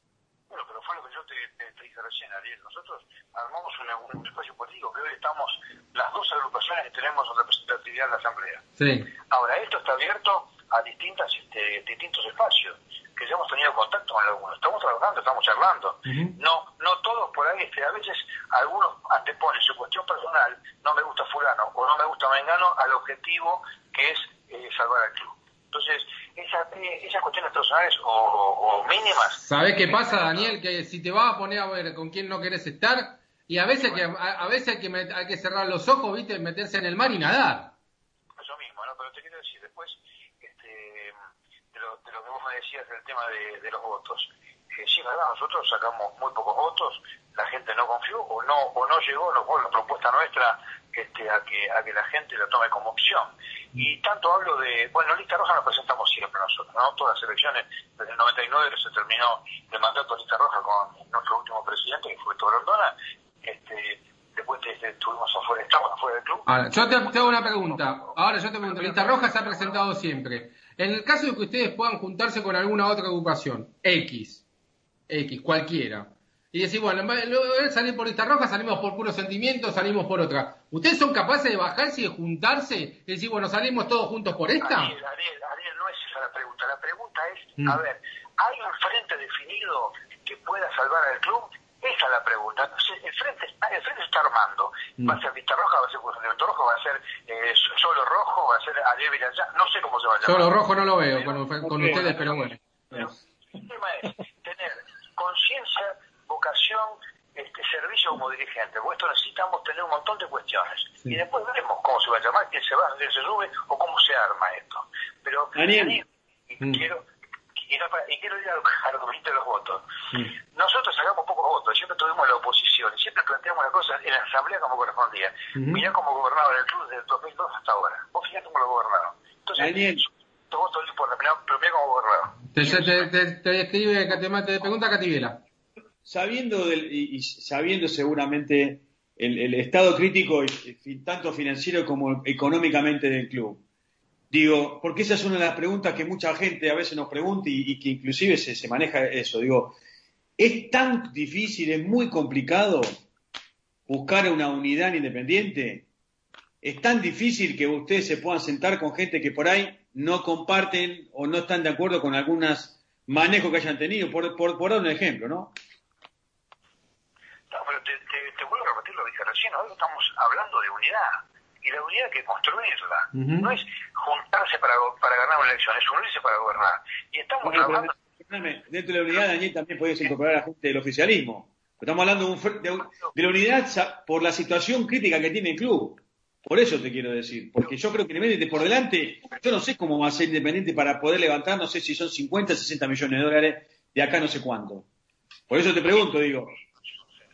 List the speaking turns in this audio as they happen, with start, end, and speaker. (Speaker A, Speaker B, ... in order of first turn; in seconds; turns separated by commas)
Speaker A: 0.5-8.6, Speaker B: 8.8-9.1, Speaker A: 9.3-30.5, Speaker B: 16.1-16.3, Speaker B: 29.4-37.7, Speaker A: 38.4-41.1, Speaker A: 41.7-67.9, Speaker B: 66.5-74.4, Speaker A: 68.6-69.8, Speaker B: 75.1-85.0, Speaker A: 84.6-100.5, Speaker B: 100.2-102.6, Speaker C: 101.6-102.4, Speaker A: 103.6-117.0, Speaker C: 115.5-116.0, Speaker A: 117.6-119.8, Speaker A: 120.5-133.1, Speaker B: 125.5-125.8, Speaker C: 129.6-130.0, Speaker B: 132.5-135.4, Speaker C: 136.0-143.6, Speaker C: 144.3-149.7, Speaker C: 150.4-152.9, Speaker C: 153.9-155.8, Speaker C: 156.6-165.5, Speaker A: 167.5-177.9, Speaker B: 173.1-173.5, Speaker C: 177.4-194.8, Speaker C: 195.5-196.6